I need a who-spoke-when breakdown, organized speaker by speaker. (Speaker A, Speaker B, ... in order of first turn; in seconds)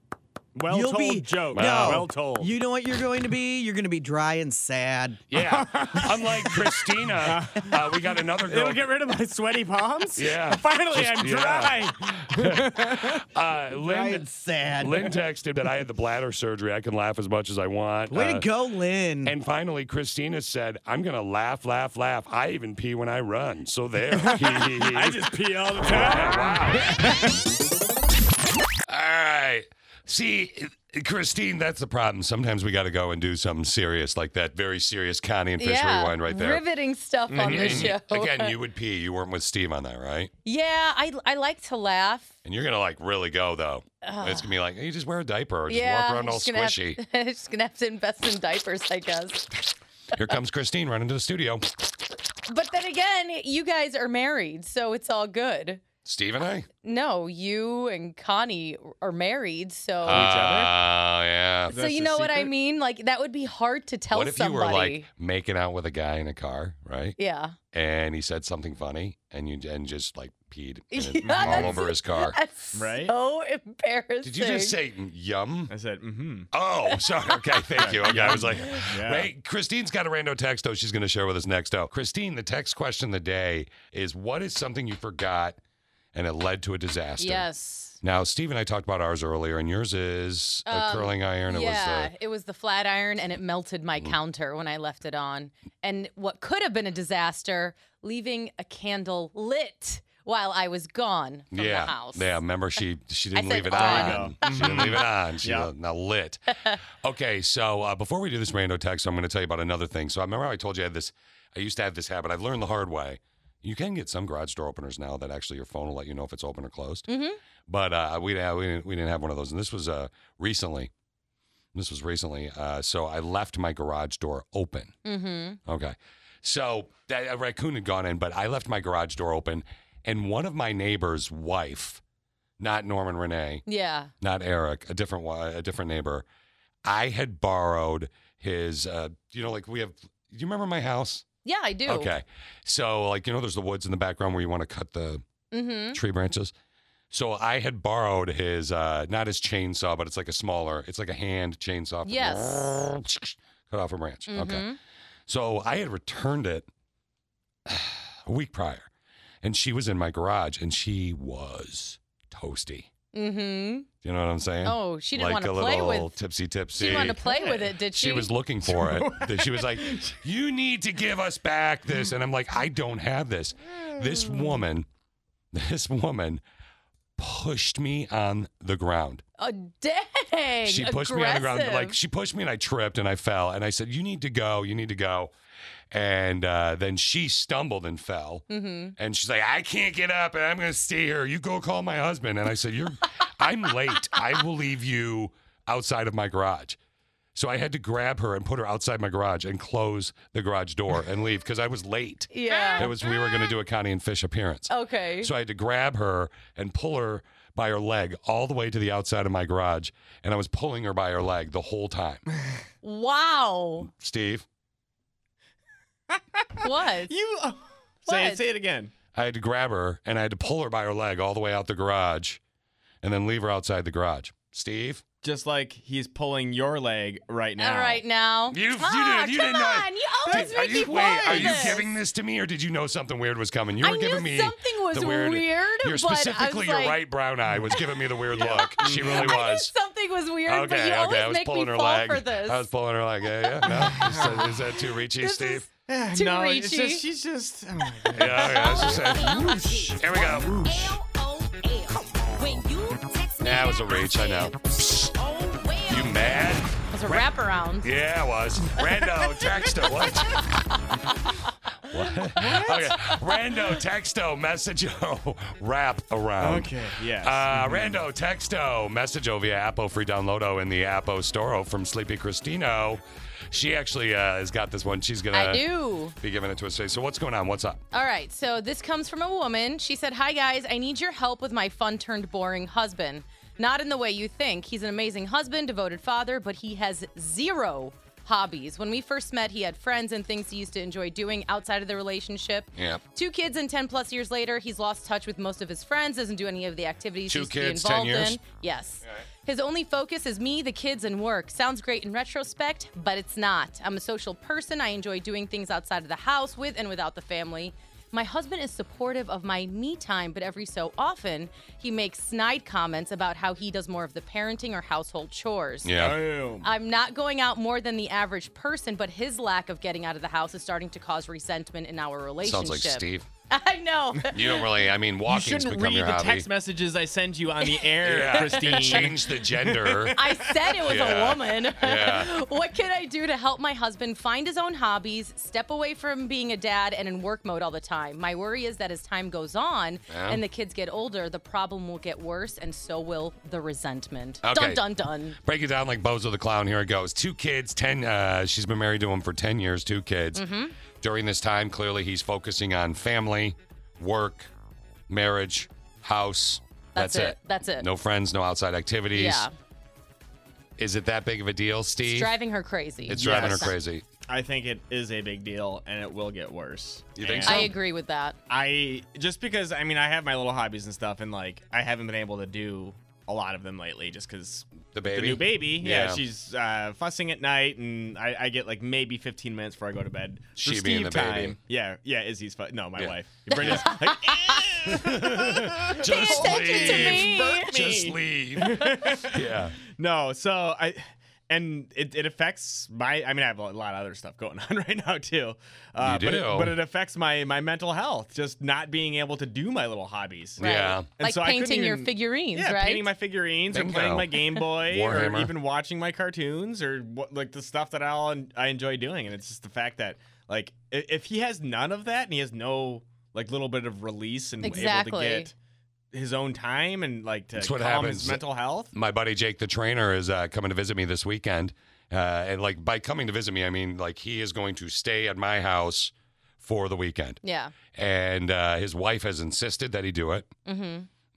Speaker A: 0.6-2.5, 5.3-13.2, 24.2-27.3, 37.3-37.9, 60.1-60.7, 61.7-62.5, 71.2-71.9, 72.7-73.1, 75.7-76.5, 77.8-79.3, 103.7-105.7, 166.9-167.8, 168.7-170.2, 216.1-216.4, 217.1-218.9, 225.2-228.0, 230.5-231.8, 238.3-239.4, 243.7-244.6, 245.9-250.9, 262.4-263.1, 266.4-268.0, 316.0-316.7, 325.3-331.1, 363.1-363.7, 364.3-367.7, 368.5-415.5, 416.1-418.9
Speaker B: 0.7-5.2, 13.9-15.1, 18.1-19.3
Speaker C: 1.5-2.1, 5.3-8.8, 10.2-14.2, 14.8-18.5, 19.2-25.2, 25.8-26.9, 28.9-36.6, 37.3-40.3, 42.5-47.0, 50.1-51.7, 56.0-56.7, 60.0-61.8, 64.1-67.2, 67.7-72.4, 74.2-75.7, 76.5-85.6, 86.1-87.5, 88.0-92.1, 101.5-106.4, 107.0-117.1, 117.7-120.9, 121.7-125.0, 125.7-132.0, 132.6-133.6, 134.2-136.3, 136.8-141.3, 141.8-145.2, 145.9-146.5, 147.1-154.7, 155.3-156.7, 157.7-158.9, 159.4-162.9, 164.0-174.9, 175.5-176.4, 177.2-179.2, 180.7-185.3, 185.9-188.4, 189.0-196.8, 197.3-212.2, 213.8-214.5, 219.2-222.4, 223.0-225.0, 228.5-239.7, 240.4-245.7, 248.1-250.9, 253.4-255.1, 255.9-257.3, 257.8-260.4, 261.9-275.6, 276.2-277.8, 292.8-293.0, 297.3-298.4, 315.8-316.2, 322.4-323.3, 324.3-326.5, 328.0-330.2, 330.8-332.4, 340.1-340.4, 344.4-344.8, 345.4-354.5, 355.1-359.5, 360.8-362.4, 363.1-364.0, 367.2-367.7, 374.9-376.2, 380.6-381.6, 383.0-383.9, 384.9-389.8, 396.0-396.8, 400.6-401.1, 403.7-405.5, 417.6-418.4, 418.9-427.4, 427.9-430.5
Speaker D: 35.6-38.5, 40.5-42.4, 44.0-44.5, 45.7-49.5, 52.5-55.8, 56.8-60.4, 61.7-65.1, 67.2-67.6, 70.9-74.8, 87.2-88.0, 90.7-102.4, 103.3-105.0, 117.1-117.4, 125.0-125.6, 133.7-134.1, 141.4-142.1, 145.5-146.0, 152.1-152.7, 154.3-154.8, 163.1-163.9, 164.6-166.2, 166.8-168.3, 179.4-182.0, 188.5-188.9, 202.3-203.5, 204.7-205.3, 212.8-213.9, 216.6-217.1, 218.1-218.4, 227.6-231.8, 233.8-237.0, 238.5-242.7, 245.2-247.0, 248.3-254.6, 255.1-257.9, 275.3-276.1, 277.9-315.9, 316.6-324.6, 327.6-329.1, 330.2-345.4, 350.3-350.8, 356.9-357.9, 359.1-359.5, 362.0-363.7, 367.4-368.4, 383.6-384.6, 386.0-387.7, 400.6-403.1, 414.6-415.5, 427.4-427.8, 430.7-431.1